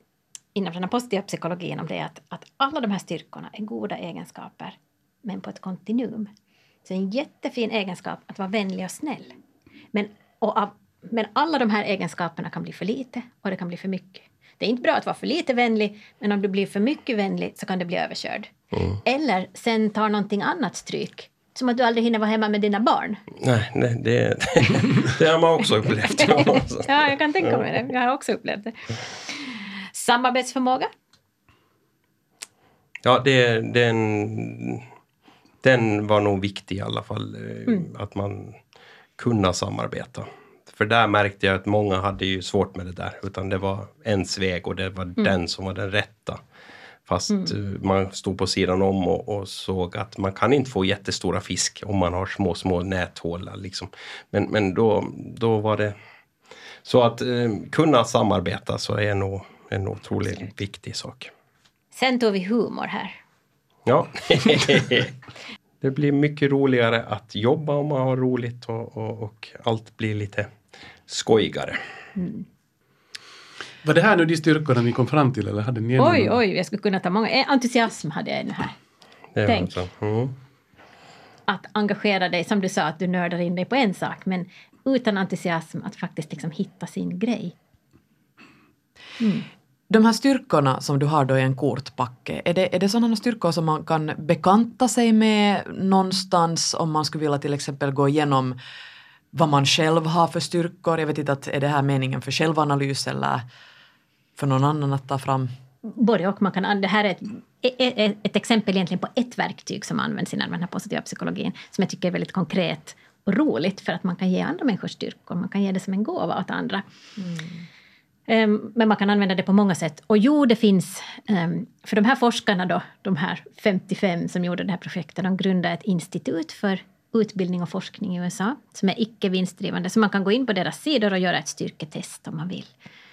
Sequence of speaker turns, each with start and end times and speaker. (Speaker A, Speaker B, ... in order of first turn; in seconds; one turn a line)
Speaker A: 0.6-6.3
Speaker A: 6.8-9.3
Speaker A: 9.9-18.5
Speaker A: 19.0-23.2
Speaker B: 23.4-26.9
Speaker A: 26.9-30.9
Speaker B: 33.0-34.8
Speaker B: 35.6-38.6
Speaker B: 39.2-46.4
Speaker B: 47.1-56.0
Speaker B: 56.9-61.3
Speaker A: 61.9-63.1
Speaker B: 63.9-65.1
Speaker B: 65.8-70.5
Speaker B: 71.1-71.8
Speaker A: 72.2-72.4
Speaker C: 73.8-76.4
Speaker A: 76.0-78.8
Speaker B: 79.3-80.3
Speaker A: 79.5-79.7
Speaker A: 81.5-87.5
Speaker A: 89.2-89.5
Speaker D: 89.9-98.6
Speaker D: 99.3-103.5
Speaker D: 104.4-105.5
Speaker A: 105.8-116.8
Speaker D: 117.2-117.6
Speaker A: 118.3-132.7